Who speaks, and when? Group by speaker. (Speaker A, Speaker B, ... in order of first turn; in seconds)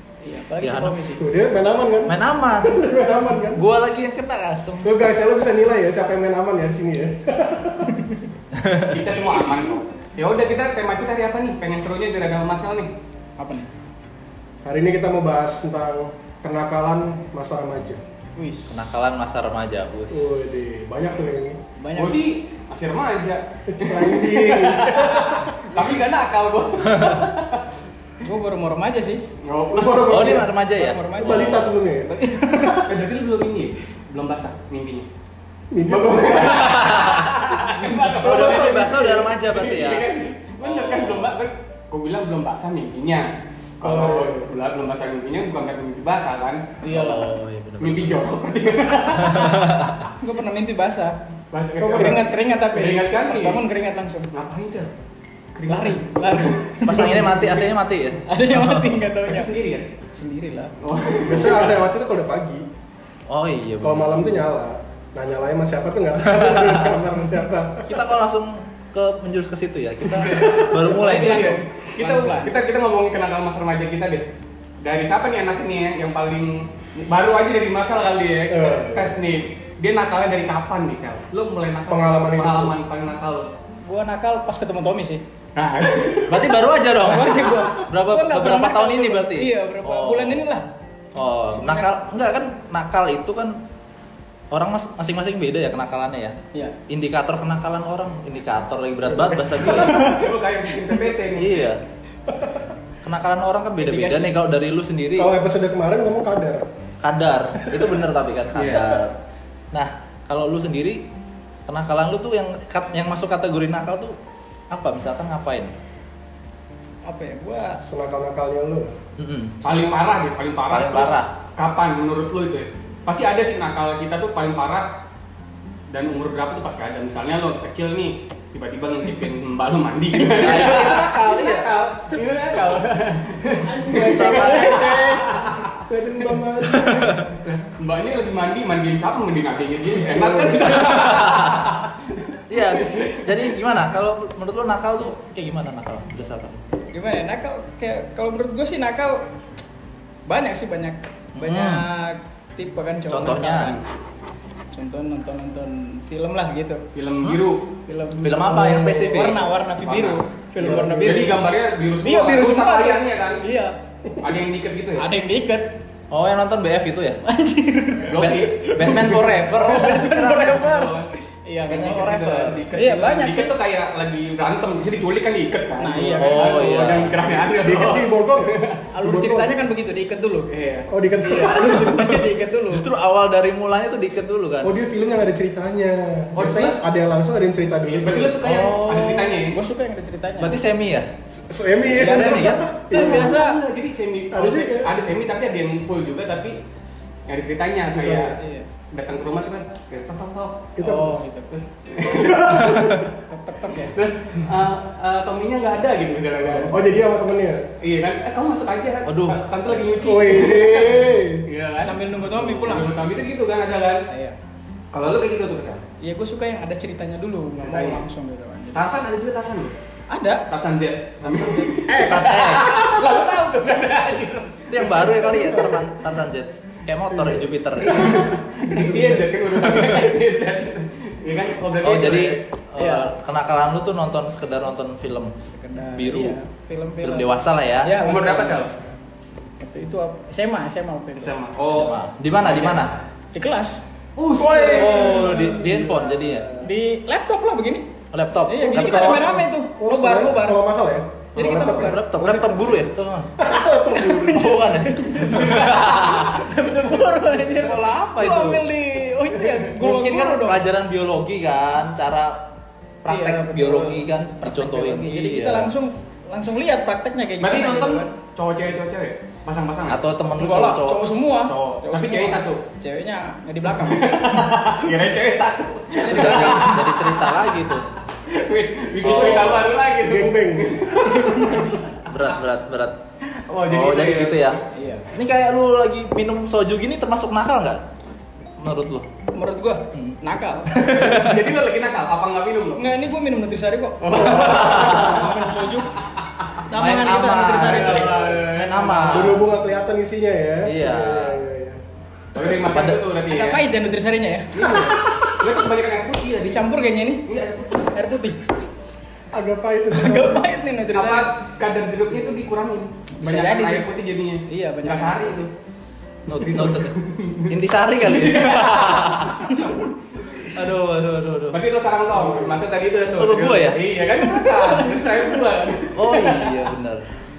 Speaker A: 0.2-1.2, 13.4-13.7, 18.4-19.0, 21.8-22.2, 28.2-29.2, 30.7-32.9, 37.8-38.5, 46.8-47.4, 50.2-51.2, 51.9-54.3, 55.7-57.4, 58.3-59.5, 60.1-60.7, 70.8-72.5, 83.8-85.2, 87.0-90.7, 91.5-91.9, 103.8-104.3, 117.0-117.8, 146.9-149.2, 150.3-153.8, 154.7-156.8, 157.9-161.4, 162.0-163.7, 165.0-165.7, 167.2-173.5, 175.8-176.6, 178.9-180.5, 181.2-182.9, 189.5-190.6, 192.0-193.6, 198.4-198.7, 200.8-201.5, 203.3-204.0, 211.8-213.0, 214.1-214.4, 216.0-218.9, 220.1-220.4, 221.2-222.0, 232.8-233.1, 235.4-238.8, 239.6-241.3, 243.3-243.8, 246.6-247.9, 248.5-250.6, 251.3-252.6, 254.0-260.7, 263.1-268.1, 270.4-274.4, 275.9-276.8, 284.7-285.1, 289.3-291.1, 292.8-295.9, 296.7-298.4, 303.3-305.4, 306.4-307.2, 307.9-308.4, 309.9-311.3, 313.1-313.9, 314.5-315.4
Speaker B: 0.6-1.0, 2.1-2.8, 3.5-5.0, 8.6-9.1, 18.7-20.5, 26.9-27.2, 30.1-31.7, 36.4-37.4, 38.1-40.1, 40.6-41.3, 46.9-48.2, 49.2-50.1, 56.8-59.0, 63.3-64.3, 66.3-67.0, 67.8-71.6, 86.3-90.4, 91.2-93.6, 94.5-100.1, 101.3-101.8, 103.0-105.3, 107.0-109.2, 109.7-111.0, 111.7-114.2, 114.7-115.7, 119.2-119.9, 120.7-121.3, 130.2-131.7, 134.0-135.1, 136.8-137.3, 140.7-141.7, 142.5-146.6, 151.4-151.9, 153.1-153.8, 158.2-159.5, 166.1-167.2, 168.2-170.6, 171.7-172.6, 176.2-177.2, 181.4-184.7, 188.4-189.4, 190.4-191.1, 191.9-192.7, 202.8-203.0, 209.1-209.4, 221.9-222.8, 224.7-228.3, 231.8-235.3, 235.9-236.4, 237.0-237.9, 241.7-242.9, 244.4-246.5, 248.1-249.4, 251.4-256.4, 257.2-258.7, 259.7-262.4, 263.0-265.7, 269.9-271.1, 276.0-277.9, 279.0-279.7, 282.1-283.0, 283.7-284.6, 285.1-287.8, 288.6-289.1, 289.9-291.6, 294.4-295.1, 296.7-299.4, 300.7-301.4, 302.4-303.0, 316.3-317.0, 317.5-319.7, 320.4-321.6, 323.0-325.3, 325.9-327.0
Speaker C: 1.2-3.6, 4.8-8.2, 14.7-18.0, 20.1-21.6, 23.7-25.6, 29.7-30.5, 31.2-32.8, 35.7-36.8, 38.2-39.3, 43.8-44.5, 51.8-52.2, 57.2-57.7, 61.2-62.7, 63.8-68.1, 70.3-70.8, 78.5-79.2, 81.9-82.8, 99.1-100.3, 102.3-102.5, 105.2-106.7, 107.7-108.0, 117.8-119.0, 133.6-137.2, 140.0-140.7, 160.6-161.3, 177.5-179.6, 180.9-181.9, 184.6-188.4, 191.3-193.3, 194.3-194.9, 198.0-198.3, 200.8-201.2, 202.0-203.1, 206.5-207.7, 209.9-211.5, 221.9-222.8, 225.3-225.9, 227.1-229.9, 244.4-246.7, 249.2-252.1, 253.4-254.8, 279.3-281.8, 294.3-295.2, 299.1-301.8, 304.6-304.9, 309.3-310.5, 322.1-322.6
Speaker D: 8.9-12.9, 22.0-27.7, 29.4-30.4, 32.8-35.1, 35.9-46.6, 47.8-49.8, 51.5-53.6, 54.3-54.9, 55.5-56.7, 59.2-59.9, 60.8-61.8, 70.1-74.3, 74.8-83.5, 85.6-86.6, 99.7-101.7, 108.5-108.9, 119.6-124.9, 125.9-135.7, 136.8-143.5, 156.9-157.7, 159.8-160.2, 161.0-163.4, 164.2-165.1, 168.0-171.2, 171.7-178.8, 180.5-180.9, 186.3-186.8, 187.9-189.6, 192.9-196.6, 197.3-198.4, 198.9-200.8, 201.5-203.0, 203.9-206.8, 207.8-214.1, 214.9-215.8, 217.6-218.0, 218.7-219.8, 220.5-225.5, 228.0-232.4, 238.0-238.7, 241.2-243.0, 244.2-245.4, 255.3-256.1, 267.4-270.0, 271.4-272.6, 273.7-277.4, 278.3-281.8, 283.3-284.6, 290.9-293.0, 294.0-295.9, 297.6-299.4, 302.4-303.7, 304.5-306.7, 307.2-308.0, 310.9-315.5, 316.4-319.6, 321.5-326.7